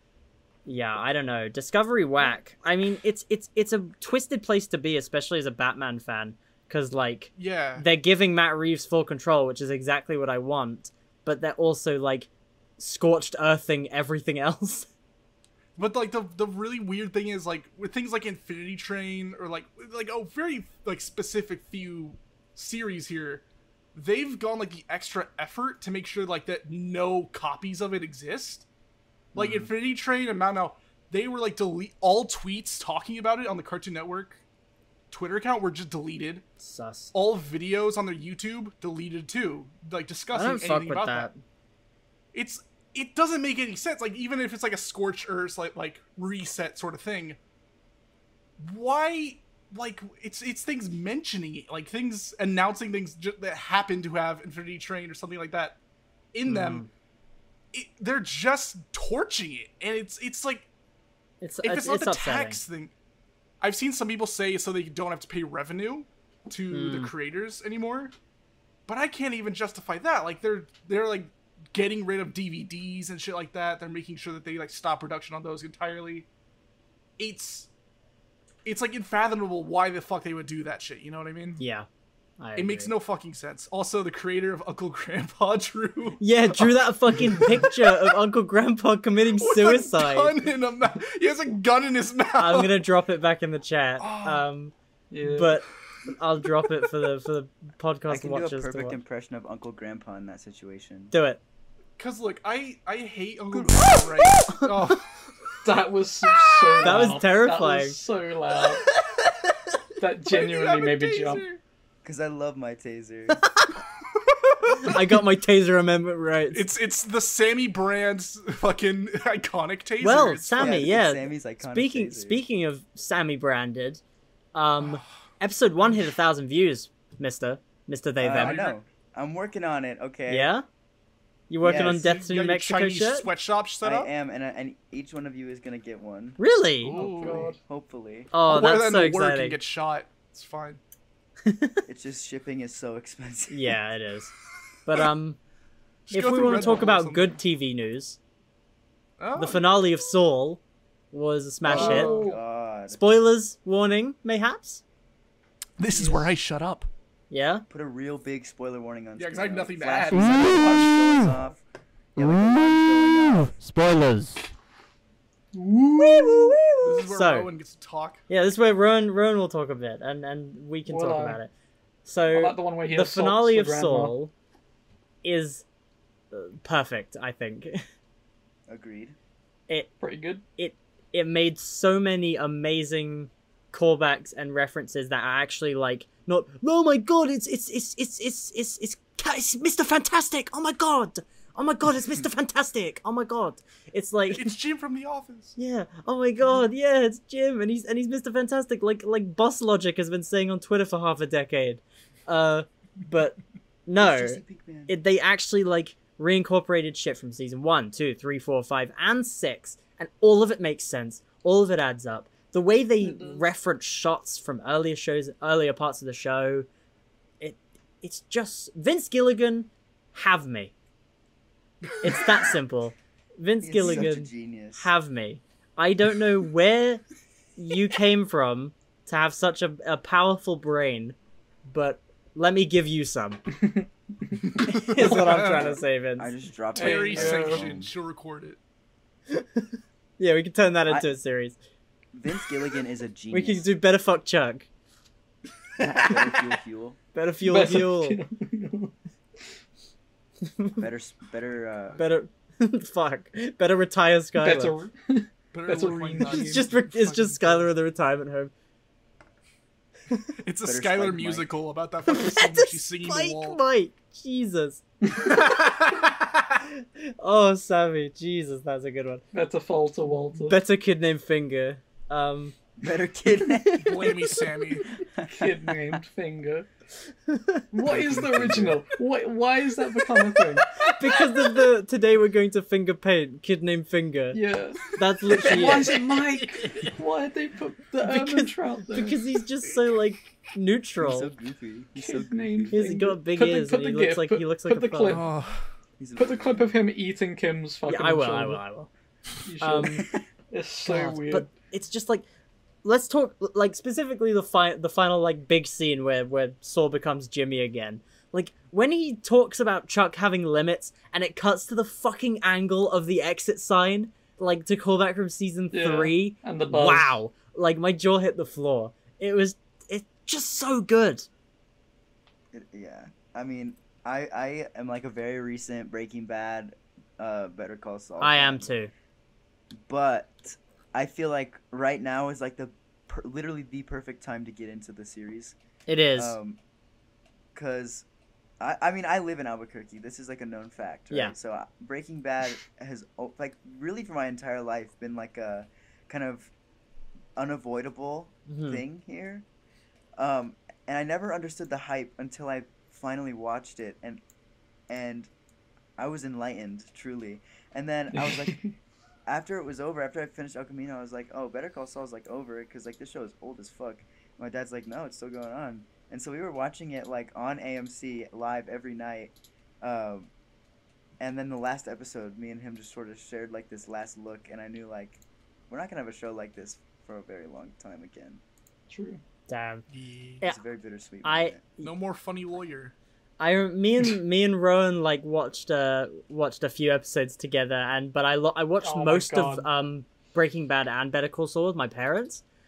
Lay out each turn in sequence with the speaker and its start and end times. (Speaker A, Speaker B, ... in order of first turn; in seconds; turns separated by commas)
Speaker A: 0.7-14.9, Speaker B: 7.4-7.8, Speaker B: 15.8-23.4, Speaker B: 23.9-28.6, Speaker A: 29.3-29.7, Speaker B: 29.3-34.4, Speaker B: 35.1-36.4, Speaker A: 36.6-37.1, Speaker B: 37.1-41.3, Speaker A: 40.3-41.4, Speaker B: 42.3-47.4, Speaker B: 48.6-55.8, Speaker B: 56.3-56.8, Speaker A: 56.5-56.9, Speaker B: 57.7-60.7, Speaker A: 61.4-62.6, Speaker B: 61.6-62.9, Speaker B: 63.6-68.1, Speaker A: 66.7-67.1, Speaker B: 68.9-76.3, Speaker B: 77.2-77.7, Speaker B: 78.6-81.6, Speaker A: 81.6-81.8, Speaker A: 82.4-82.9, Speaker B: 82.6-88.1, Speaker A: 86.2-90.3, Speaker B: 89.3-92.8, Speaker A: 92.4-99.0, Speaker B: 94.0-94.5, Speaker C: 95.1-95.6, Speaker D: 98.1-101.1, Speaker A: 101.1-101.4, Speaker B: 102.0-105.1, Speaker D: 103.5-103.9, Speaker C: 105.6-108.9, Speaker A: 106.8-108.0, Speaker C: 110.0-111.4, Speaker B: 110.3-111.6, Speaker D: 112.0-113.4, Speaker A: 113.4-113.7, Speaker B: 114.7-115.0, Speaker A: 114.8-116.6, Speaker B: 116.5-120.8, Speaker A: 120.0-124.0, Speaker D: 120.6-122.4, Speaker A: 124.5-128.6, Speaker D: 128.2-130.5, Speaker B: 128.3-128.8, Speaker A: 130.3-130.6, Speaker A: 131.5-133.3, Speaker D: 131.6-132.0, Speaker B: 131.7-134.1, Speaker D: 133.8-136.4, Speaker A: 136.4-137.0, Speaker B: 136.8-137.5, Speaker C: 136.9-137.6, Speaker D: 136.9-138.3, Speaker A: 138.3-139.6, Speaker B: 138.5-140.8, Speaker A: 141.4-141.8, Speaker D: 141.8-143.7, Speaker A: 143.5-144.3, Speaker A: 144.8-145.4, Speaker B: 146.1-147.3, Speaker A: 146.1-148.2, Speaker B: 149.2-149.8, Speaker A: 149.3-150.6, Speaker A: 151.1-152.2, Speaker D: 151.7-153.0, Speaker B: 151.7-152.3, Speaker C: 151.7-152.4, Speaker A: 152.9-154.8, Speaker B: 155.8-156.9, Speaker A: 157.3-157.6, Speaker D: 157.7-161.6, Speaker B: 159.2-161.3, Speaker D: 162.2-163.6, Speaker C: 165.5-166.7, Speaker A: 166.0-167.5, Speaker B: 166.8-168.2, Speaker A: 168.3-171.5, Speaker C: 170.9-171.4, Speaker A: 172.0-174.3, Speaker C: 172.3-174.1, Speaker A: 175.2-175.6, Speaker A: 176.3-177.8, Speaker D: 178.7-179.2, Speaker C: 180.0-180.4, Speaker A: 180.6-194.5, Speaker B: 194.3-195.5, Speaker A: 195.6-216.7, Speaker D: 203.9-204.9, Speaker C: 213.0-213.4, Speaker A: 217.4-220.7, Speaker A: 222.0-227.0, Speaker D: 223.6-224.9, Speaker A: 227.6-233.4, Speaker C: 233.6-233.8, Speaker B: 234.5-235.8, Speaker A: 234.6-236.3, Speaker D: 235.0-237.9, Speaker C: 236.7-237.7, Speaker B: 236.8-238.6, Speaker A: 239.3-241.6, Speaker D: 242.1-243.7, Speaker A: 243.3-244.7, Speaker D: 245.8-247.0, Speaker A: 247.1-248.2, Speaker C: 247.4-248.9, Speaker A: 250.5-250.8, Speaker D: 250.8-252.0, Speaker A: 252.0-254.8, Speaker C: 254.4-256.6, Speaker B: 255.5-257.7, Speaker A: 256.2-258.5, Speaker B: 260.4-263.6, Speaker D: 260.6-261.5, Speaker A: 262.1-266.0, Speaker B: 265.4-265.9, Speaker A: 266.7-269.2, Speaker C: 269.3-270.6, Speaker A: 270.4-272.5, Speaker D: 272.8-274.1, Speaker A: 273.7-274.1, Speaker B: 273.8-274.9, Speaker D: 275.0-275.7, Speaker C: 275.3-276.7, Speaker A: 277.3-277.6, Speaker C: 277.7-280.6, Speaker D: 277.8-278.8, Speaker A: 280.8-284.4, Speaker C: 284.3-289.2, Speaker A: 284.9-286.0, Speaker A: 288.0-291.3, Speaker D: 291.0-292.8, Speaker C: 291.9-295.3, Speaker A: 292.7-295.2, Speaker B: 295.1-295.6, Speaker D: 296.0-296.8, Speaker C: 296.2-298.6, Speaker A: 297.9-298.9, Speaker C: 299.4-301.5, Speaker A: 299.6-300.1, Speaker A: 300.8-302.2, Speaker A: 302.8-321.3, Speaker C: 315.7-317.1, Speaker D: 322.5-328.7, Speaker A: 328.2-328.9, Speaker D: 329.7-335.6, Speaker A: 335.9-336.4, Speaker D: 336.1-336.6, Speaker D: 337.5-338.0, Speaker D: 338.6-346.5, Speaker D: 347.4-349.4, Speaker A: 348.5-348.8, Speaker D: 350.2-354.2, Speaker D: 354.9-355.3, Speaker D: 356.0-358.6, Speaker C: 358.1-358.7, Speaker D: 359.2-370.3, Speaker D: 371.2-378.4, Speaker C: 378.9-379.2, Speaker A: 379.5-379.8, Speaker B: 379.9-380.4, Speaker D: 380.4-381.6, Speaker A: 381.2-381.9, Speaker B: 381.8-382.9, Speaker A: 383.4-392.4, Speaker C: 388.8-389.7